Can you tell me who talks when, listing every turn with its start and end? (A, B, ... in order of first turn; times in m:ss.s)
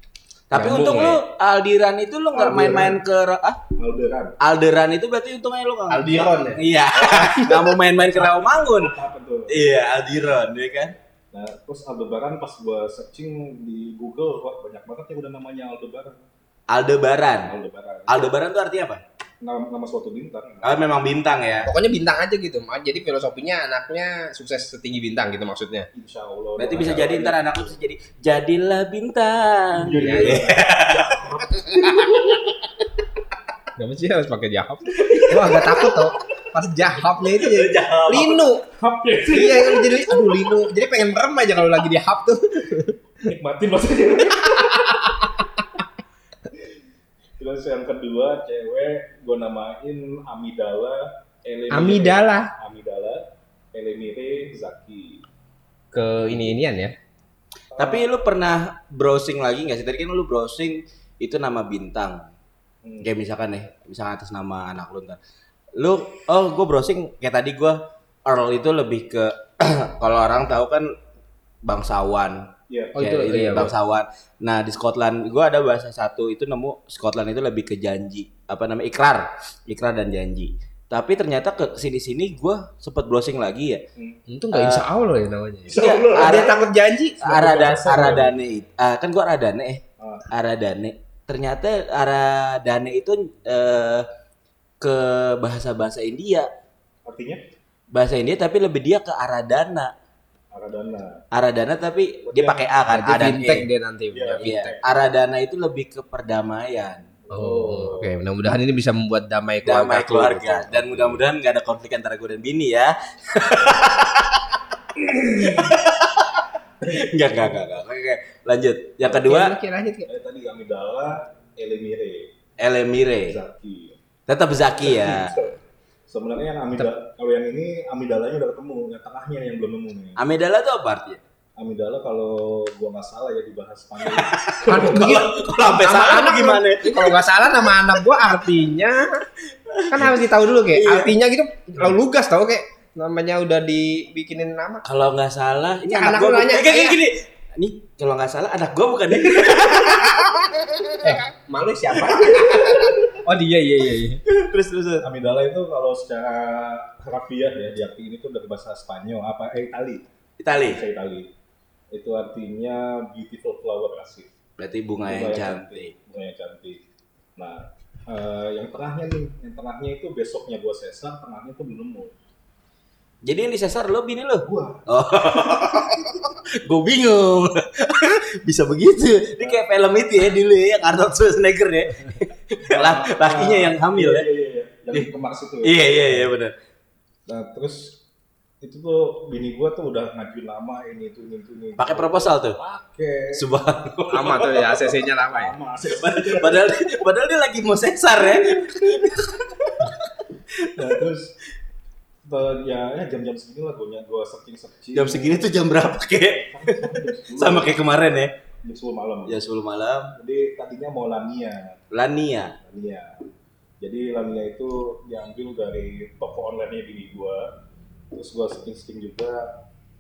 0:00.5-0:03.6 A
0:00.5-0:01.2 B
0:02.3-0:03.0 C
0:03.8-0:04.4 C
0:04.4-0:09.0 A
0:05.9-0:06.6 B
0:06.9-0:09.7 C
0:09.5-0:11.0 A
0:11.3-0:16.3 C
0:16.7-0:17.6 A
0:17.4-0:18.4 C
0:18.1-0:19.0 A
0:19.4-0:20.8 C
0:20.6-0:21.7 A
0:21.7-0:25.9 B
0:25.9-0:27.8 C
0:26.6-0:32.2 A
0:29.8-0:32.3 C
0:30.0-0:30.5 B
0:33.8-0:38.6 B
0:35.0-0:35.9 C
0:37.4-0:40.7 C
0:37.6-0:38.1 A
0:39.3-0:43.0 B
0:43.2-0:45.3 C
0:44.5-0:45.4 B
0:47.4-0:55.2 C
0:51.7-0:52.5 B
0:55.9-0:57.0 B
0:57.8-0:58.1 C
0:57.8-1:02.3 A
1:02.8-1:03.1 C
1:03.0-1:05.2 A
1:05.8-1:10.9 A
1:11.6-1:23.8 A
1:12.7-1:13.0 C
1:13.0-1:13.7 B
1:24.3-1:27.5 B
1:24.5-1:24.8 A
1:25.6-1:26.6 C
1:25.8-1:26.6 A
1:27.2-1:28.4 C
1:27.2-1:34.1 A
1:30.0-1:30.3 C
1:34.8-1:36.5 A
1:37.0-1:37.4 C
1:37.9-1:39.9 A
1:40.5-1:41.2 C
1:41.3-1:43.7 A
1:42.3-1:42.7 C
1:42.9-1:44.6 B
1:44.1-1:45.1 C
1:44.4-1:47.0 A
1:47.3-1:48.2 C
1:47.3-1:50.7 B
1:49.6-1:54.6 A
1:50.8-1:51.2 C
1:55.2-1:59.6 A
1:55.2-1:55.7 C
1:56.8-1:57.5 C
1:59.1-2:00.1 B
2:00.1-2:02.3 C
2:02.6-2:03.4 A
2:03.2-2:04.0 C
2:04.3-2:05.4 A
2:04.8-2:05.6 C
2:06.1-2:10.2 C
2:10.2-2:11.2 A
2:11.6-2:15.2 C
2:14.1-2:17.3 A
2:14.7-2:19.3 B
2:19.7-2:21.1 A
2:19.9-2:24.8 B
2:24.8-2:31.1 A
2:25.8-2:27.0 B
2:31.0-2:34.2 B
2:32.3-2:32.7 A
2:34.3-2:35.1 A
2:35.0-2:40.0 C
2:40.4-2:40.8 A
2:40.6-2:41.3 C
2:41.9-2:44.3 C
2:44.6-2:45.9 A
2:45.0-2:46.8 C
2:47.4-2:52.1 C
2:53.2-3:04.3 A
2:54.4-2:54.9 C
2:59.4-2:59.6 C
3:02.6-3:06.3 C
3:05.6-3:06.6 A
3:07.3-3:08.0 C
3:08.6-3:13.5 C
3:11.8-3:12.6 A
3:13.3-3:14.9 A
3:14.1-3:15.6 B
3:14.2-3:16.9 C
3:15.9-3:21.0 A
3:18.5-3:19.1 C
3:20.7-3:21.4 C
3:22.2-3:27.8 C
3:24.9-3:28.3 A
3:28.6-3:29.4 C
3:29.3-3:30.1 A
3:30.2-3:31.8 C
3:31.9-3:32.6 A
3:32.6-3:33.3 C
3:33.8-3:37.6 C
3:38.1-3:39.6 C